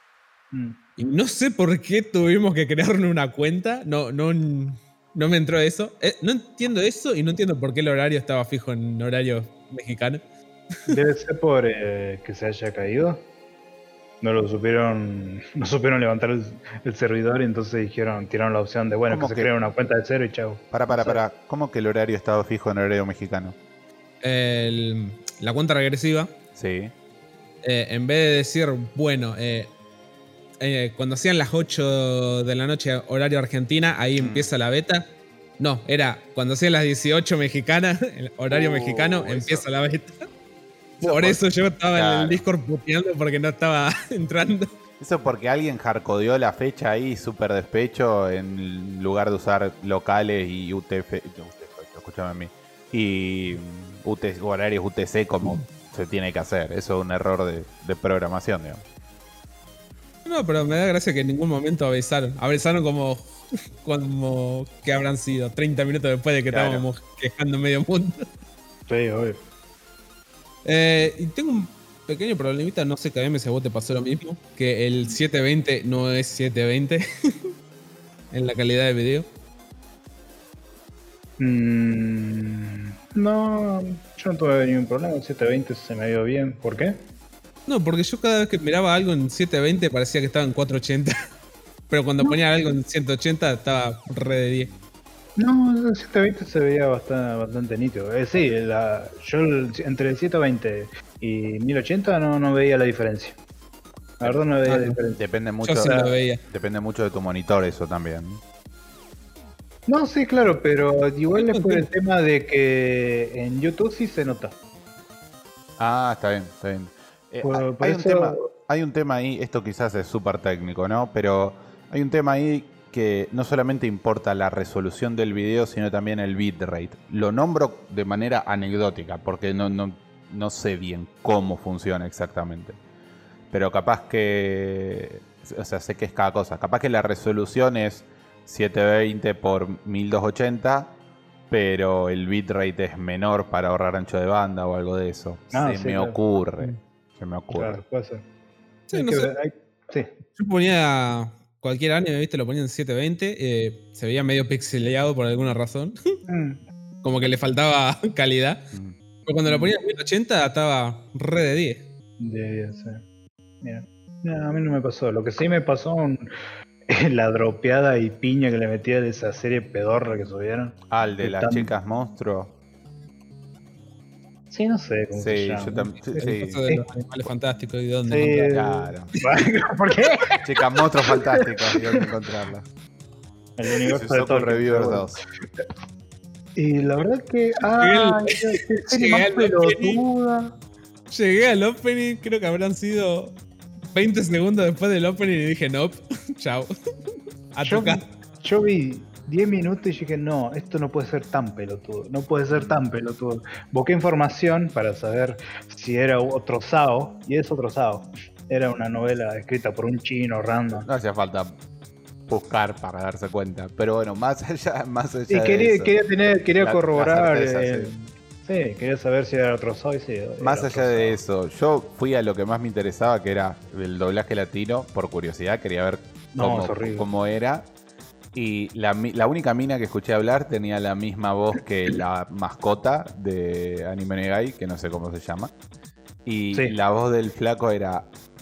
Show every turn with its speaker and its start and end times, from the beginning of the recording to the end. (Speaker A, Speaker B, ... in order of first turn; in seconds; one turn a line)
Speaker A: 0.5-0.8
Speaker B: 1.0-10.2
Speaker A: 10.9-13.2
Speaker A: 14.2-21.2
Speaker C: 19.1-19.5
Speaker C: 20.7-23.6
Speaker B: 24.2-26.3
Speaker C: 26.5-26.9
Speaker B: 27.6-29.7
Speaker B: 30.6-40.2
Speaker C: 34.2-34.5
Speaker C: 38.5-39.6
Speaker C: 41.0-41.4
Speaker B: 41.0-44.7
Speaker C: 41.9-42.4
Speaker C: 45.0-58.8
Speaker B: 60.2-63.3
Speaker B: 63.8-68.2
Speaker C: 66.5-66.8
Speaker A: 68.9-69.4
Speaker B: 70.6-77.0
Speaker B: 78.3-79.3
Speaker A: 81.4-87.0
Speaker B: 87.7-91.1
Speaker B: 91.9-94.7
Speaker A: 95.4-103.4
Speaker A: 104.2-105.2
Speaker B: 104.7-105.0
Speaker C: 105.2-108.4
Speaker B: 105.6-106.4
Speaker A: 105.8-106.1
Speaker A: 109.9-114.5
Speaker B: 111.3-111.9
Speaker C: 115.8-132.8
Speaker A: 117.4-118.5
Speaker C: 133.5-140.9
Speaker C: 141.5-147.8
Speaker A: 145.5-146.8
Speaker A: 147.5-148.2
Speaker B: 148.9-149.3
Speaker A: 148.9-150.1
Speaker B: 150.3-156.0
Speaker A: 156.3-156.6
Speaker B: 157.0-158.6
Speaker B: 159.2-161.8
Speaker A: 159.4-159.7
Speaker A: 162.2-163.0
Speaker A: 163.6-166.3
Speaker A: 166.9-171.7
Speaker C: 170.9-172.5
Speaker A: 174.5-176.8
Speaker C: 175.1-176.6
Speaker B: 176.2-178.5
Speaker A: 178.1-182.0
Speaker C: 178.4-179.1
Speaker C: 180.4-182.7
Speaker A: 183.6-185.2
Speaker C: 183.9-185.2
Speaker A: 186.6-190.5
Speaker B: 187.6-190.0
Speaker B: 191.1-193.3
Speaker B: 193.9-196.7
Speaker B: 197.5-198.0
Speaker A: 197.6-210.9
Speaker C: 210.7-211.6
Speaker C: 212.3-215.9
Speaker A: 215.3-221.2
Speaker C: 216.6-217.9
Speaker C: 220.4-227.7
Speaker A: 226.3-227.1
Speaker C: 228.3-235.5
Speaker C: 236.2-238.1